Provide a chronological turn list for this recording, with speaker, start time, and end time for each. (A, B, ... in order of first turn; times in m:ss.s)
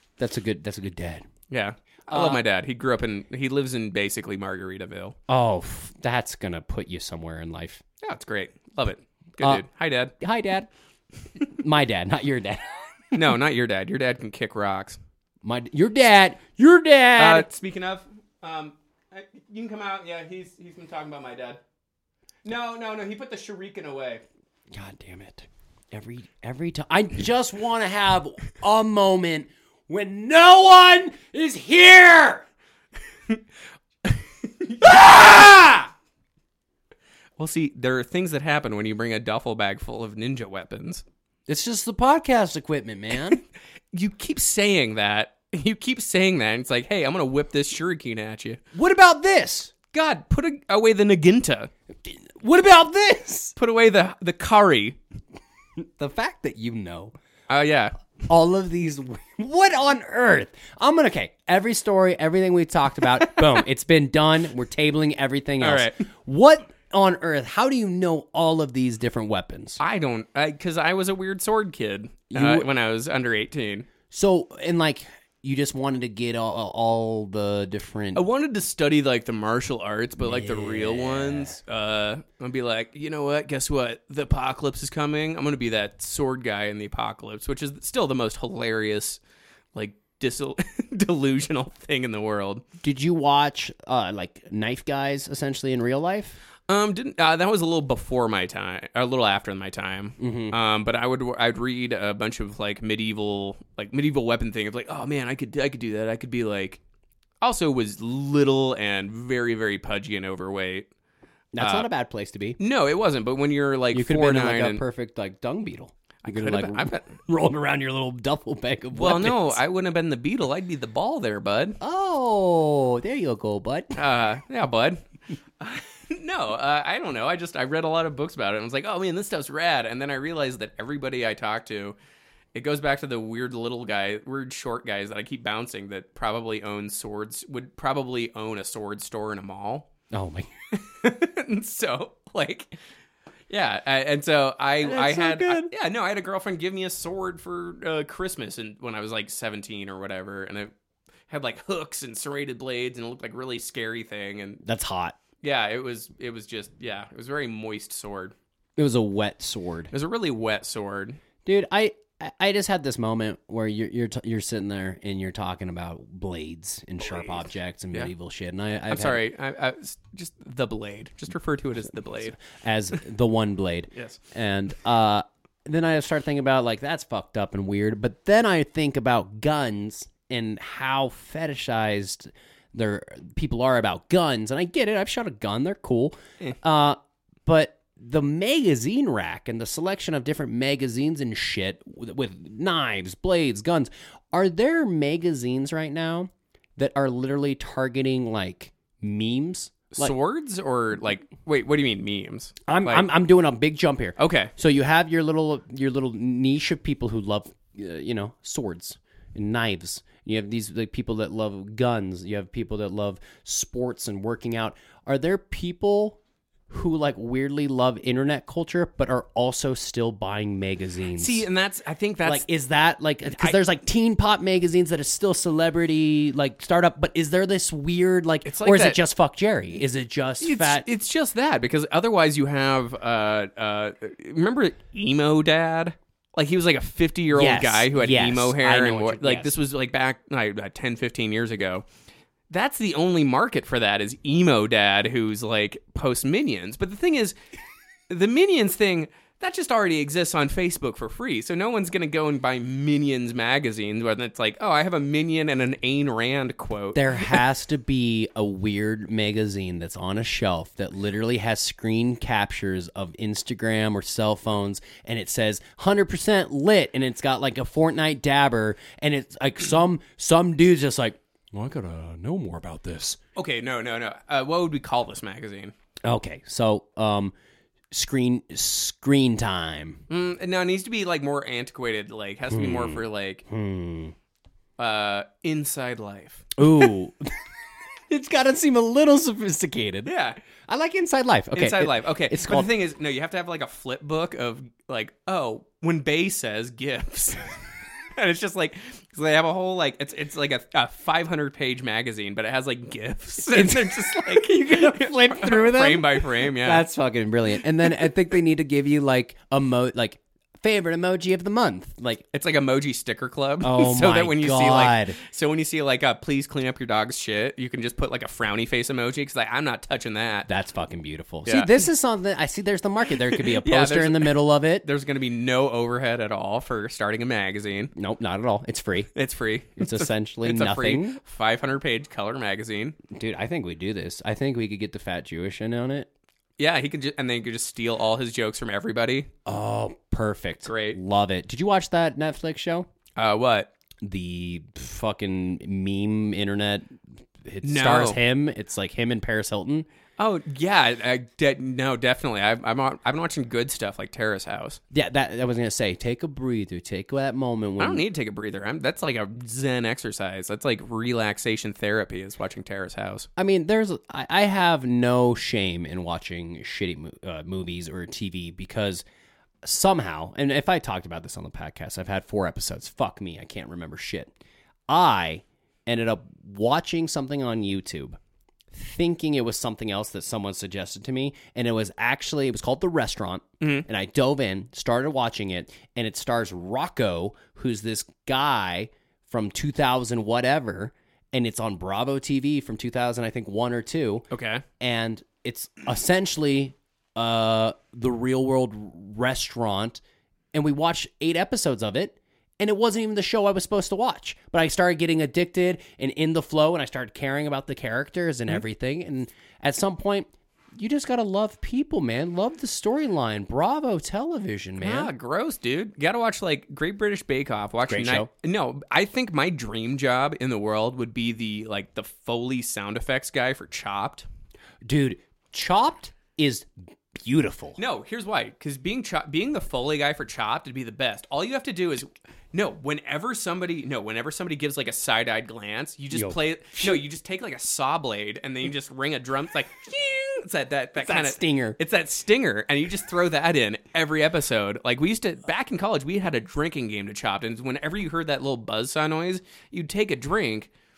0:00.2-0:01.2 A
0:01.5-0:05.2 B
0:02.1-0:02.4 A
0:05.3-0:07.8 A
0:08.0-0:10.1 B
0:10.2-0:10.7 A
0:11.4-0:13.2 A
0:13.1-0:15.0 B
0:15.4-0:17.5 A
0:17.2-0:21.6 B
0:22.4-0:24.2 B
0:24.7-0:32.5 A
0:34.7-0:35.2 B
0:34.8-0:35.9 A
0:37.4-0:41.0 B
0:41.5-0:43.4 A
0:43.9-0:48.6 B
0:48.7-0:49.7 A
0:49.9-0:51.7 B
0:52.0-0:53.6 A
0:53.6-0:55.0 B
0:55.8-0:57.1 A
0:57.5-0:58.0 B
0:58.2-1:09.8 A
1:05.6-1:06.0 B
1:09.8-1:13.9 B
1:12.3-1:12.7 A
1:14.1-1:18.2 A
1:18.2-1:29.2 B
1:20.2-1:21.6 A
1:29.8-1:32.6 B
1:32.8-1:36.4 A
1:36.7-1:46.8 B
1:40.2-1:40.6 A
1:47.4-1:50.9 B
1:51.5-1:52.6 A
1:51.6-1:51.9 B
1:52.6-1:54.8 B
1:53.9-1:59.6 A
1:56.2-1:57.2 B
1:58.9-2:01.8 B
2:01.8-2:04.0 A
2:04.0-2:05.0 B
2:05.6-2:12.0 B
2:12.5-2:19.9 B
2:20.1-2:20.5 A
2:20.7-2:22.8 B
2:23.5-2:30.7 B
2:24.8-2:25.7 A
2:31.3-2:34.6 B
2:34.6-2:35.2 A
2:35.4-2:38.3 B
2:38.8-2:39.9 A
2:39.9-2:41.2 B
2:41.4-2:49.2 A
2:47.1-2:47.4 B
2:48.9-2:52.4 B
2:52.4-3:20.1 A
2:53.9-2:54.2 B
3:19.9-3:23.1 B
3:22.7-3:41.5 A
3:24.2-3:24.5 B
3:41.2-3:42.5 B
3:42.2-3:50.9 A
3:48.4-3:49.0 B
3:50.4-4:01.9 B
3:57.3-3:59.5 A
4:02.5-4:07.3 B
4:08.1-4:17.4 B
4:16.9-4:33.2 A
4:33.4-4:35.7 B
4:36.0-4:37.3 A
4:37.9-4:40.0 A
4:40.1-4:43.4 B
4:42.5-4:44.1 A
4:44.8-4:46.8 B
4:46.6-4:47.3 A
4:48.1-4:52.7 A
4:50.1-4:50.4 B
4:51.6-4:57.5 B
4:58.2-5:06.8 B
5:03.5-5:12.2 A
5:12.3-5:20.5 B
5:13.6-5:15.2 A
5:20.5-5:24.9 A
5:21.4-5:21.7 B
5:23.4-5:27.9 B
5:28.0-5:29.1 A
5:29.1-5:33.0 B
5:29.8-5:31.2 A
5:33.1-5:36.1 A
5:36.6-5:39.3 B
5:39.4-5:42.9 A
5:40.7-5:41.0 B
5:43.2-5:43.7 B
5:44.0-5:49.9 A
5:47.6-5:48.2 B
5:50.2-5:54.8 B
5:54.9-5:58.0 A
5:57.8-6:03.3 B
6:03.4-6:09.0 A
6:09.6-6:14.3 A
6:14.9-6:18.2 A
6:18.7-6:34.3 A
6:23.6-6:23.9 B
6:34.3-6:34.6 B
6:34.8-6:40.0 A
6:40.5-6:55.1 A
6:54.8-7:04.3 B
6:57.9-6:58.3 A
7:04.8-7:07.8 A
7:07.8-7:30.7 B
7:16.1-7:17.0 A
7:21.0-7:21.8 A